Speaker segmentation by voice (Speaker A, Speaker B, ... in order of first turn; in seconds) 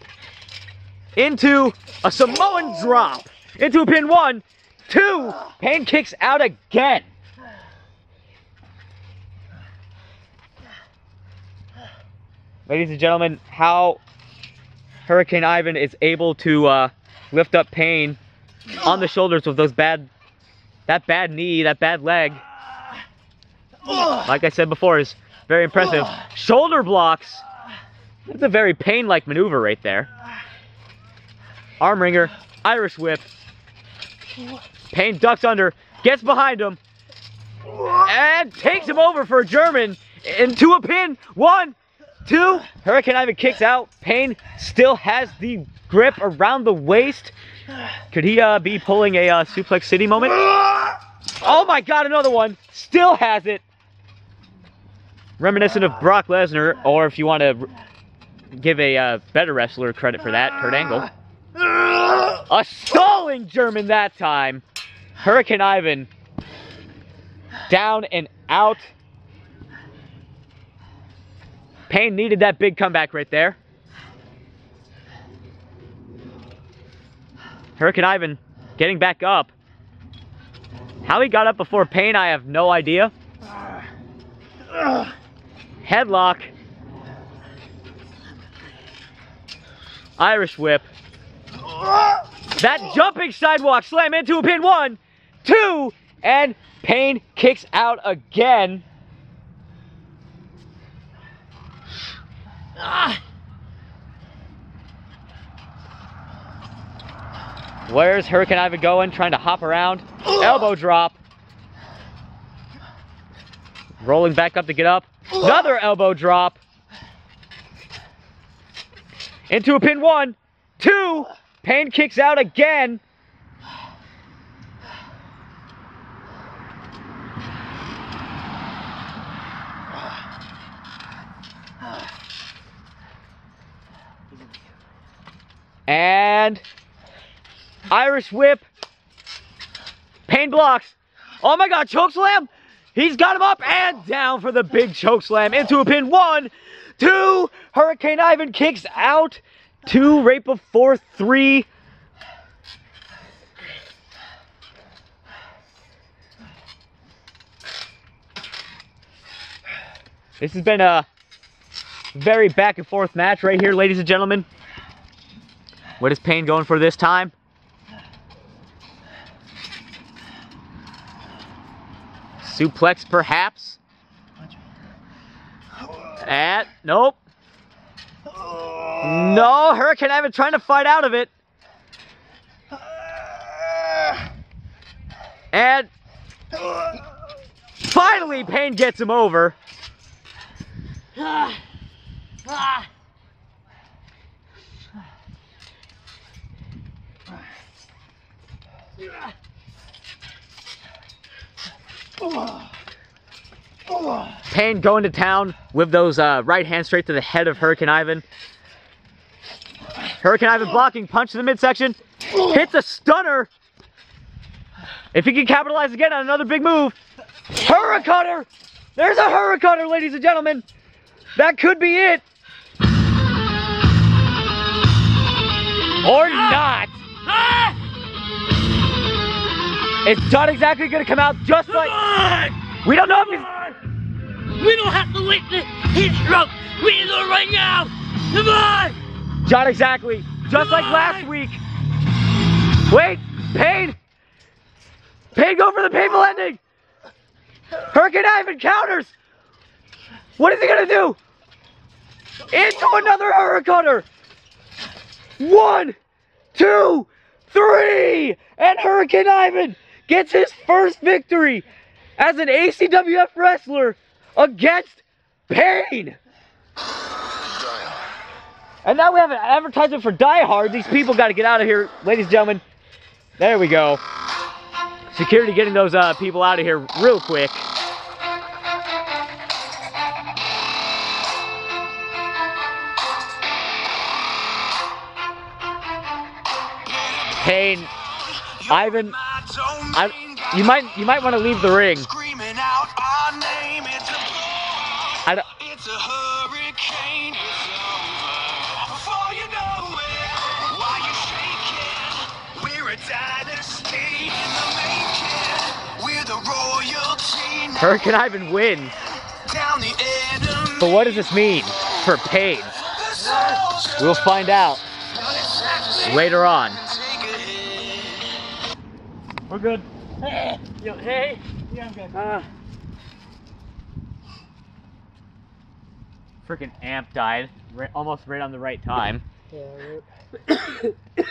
Speaker A: 1.1-7.1, 12.7-14.0, 15.1-18.2, 18.8-20.1, 20.9-22.4, 24.2-27.4, 28.2-30.1, 31.8-33.3, 34.9-36.8, 37.9-47.3, 48.1-50.5, 51.4-53.6, 55.4-57.7, 58.5-61.1, 62.1-64.6, 65.2-66.1, 67.7-68.9, 71.9-73.6, 77.8-79.5, 81.0-83.1, 85.8-86.5, 90.2-90.9, 92.5-98.8, 107.9-111.2, 114.0-116.6, 119.5-123.0, 135.9-136.6, 137.9-138.6, 140.3-151.7, 160.4-161.1, 162.1-164.4, 166.0-167.3, 172.4-173.8, 176.2-177.2, 178.9-181.3, 185.5-185.9, 187.8-189.6, 204.5-208.2, 210.2-213.5, 215.1-217.0, 217.6-220.6, 221.3-222.2, 226.0-227.0, 230.0-232.0, 232.8-233.6, 239.4-241.6, 242.9-244.0, 245.3-246.6, 247.9-249.1, 250.4-251.2, 252.5-254.1, 255.4-255.9, 256.5-261.6, 262.2-266.2, 268.8-272.6, 273.4-274.0, 275.1-277.6, 287.4-287.9, 288.6-289.2, 289.9-292.1, 295.2-295.5, 307.8-308.9, 310.8-312.7, 313.9-314.8, 315.9-316.8, 319.5-319.9, 326.4-329.2
Speaker B: 227.3-227.8, 231.9-232.6, 234.6-239.0, 320.4-322.5, 329.5-330.9
Speaker C: 286.8-287.4, 288.0-290.7, 292.1-307.9, 309.3-311.1, 313.2-313.8, 316.9-318.3